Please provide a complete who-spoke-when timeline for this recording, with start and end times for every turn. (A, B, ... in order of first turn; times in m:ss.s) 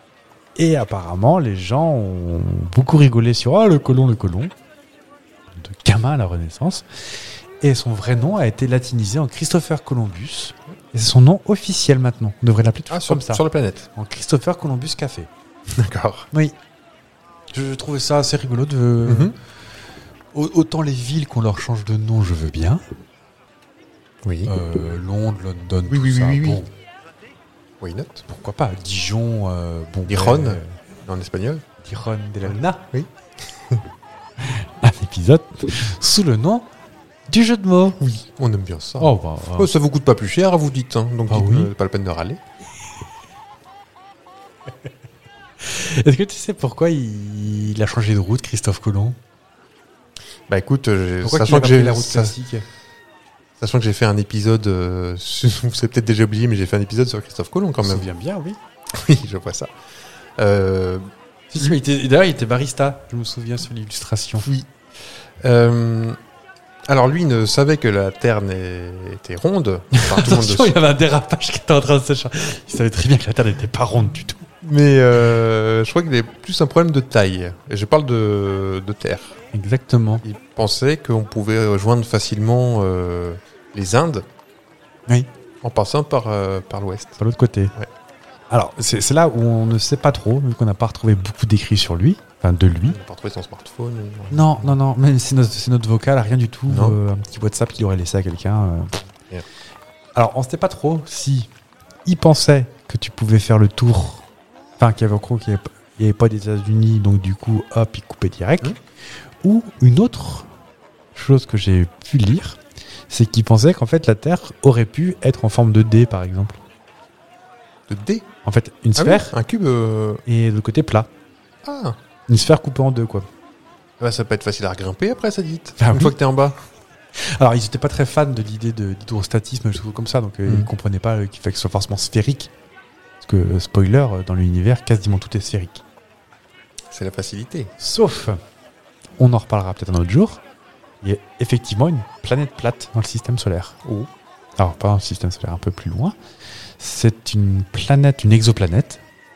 0:00.6-0:04.5 A
0:05.5-0:13.4 A
0:12.9-0:13.9 B
0:13.9-0:15.3 A
0:15.7-0:16.3 B
0:17.5-0:19.4 A
0:19.0-0:19.4 B
0:20.3-0:22.8 A
0:24.2-0:24.5 B
0:24.4-0:26.7 A
0:25.9-0:26.6 B
0:27.8-0:28.2 B
0:28.3-0:30.8 A
0:30.1-0:31.6 B
0:31.8-0:32.9 A
0:32.5-0:33.8 B
0:34.4-0:36.7 A
0:37.3-0:38.0 A
0:38.0-0:42.4 B
0:39.0-0:39.7 A
0:41.3-0:41.7 A
0:45.6-0:49.2 A
0:50.5-0:52.4 B
0:51.2-0:52.6 A
0:53.6-0:58.1 B
0:57.8-0:58.6 A
0:58.9-0:59.7 B
1:00.4-1:01.8 B
1:01.5-1:04.5 A
1:04.4-1:04.7 B
1:05.4-1:06.2 B
1:06.9-1:10.8 B
1:09.9-1:14.5 A
1:14.6-1:19.4 B
1:19.5-1:20.2 A
1:20.2-1:24.3 B
1:25.6-1:27.2 B
1:27.2-1:27.7 A
1:28.5-1:33.0 A
1:32.9-1:34.8 B
1:34.3-1:39.0 A
1:36.7-1:37.0 B
1:40.1-1:41.5 A
1:42.0-1:44.3 A
1:44.8-1:48.8 A
1:49.4-1:50.5 A
1:51.1-1:56.6 A
1:57.9-1:58.3 B
1:58.4-1:59.3 A
1:59.0-2:00.2 B
2:00.3-2:01.1 A
2:01.6-2:02.0 B
2:02.3-2:03.3 A
2:04.0-2:06.6 B
2:05.8-2:06.2 A
2:07.2-2:12.5 A
2:13.2-2:15.8 A
2:16.9-2:17.7 B
2:17.8-2:18.4 A
2:19.2-2:20.4 A
2:21.0-2:23.8 A
2:23.8-2:24.1 B
2:24.6-2:26.2 A
2:26.8-2:29.0 A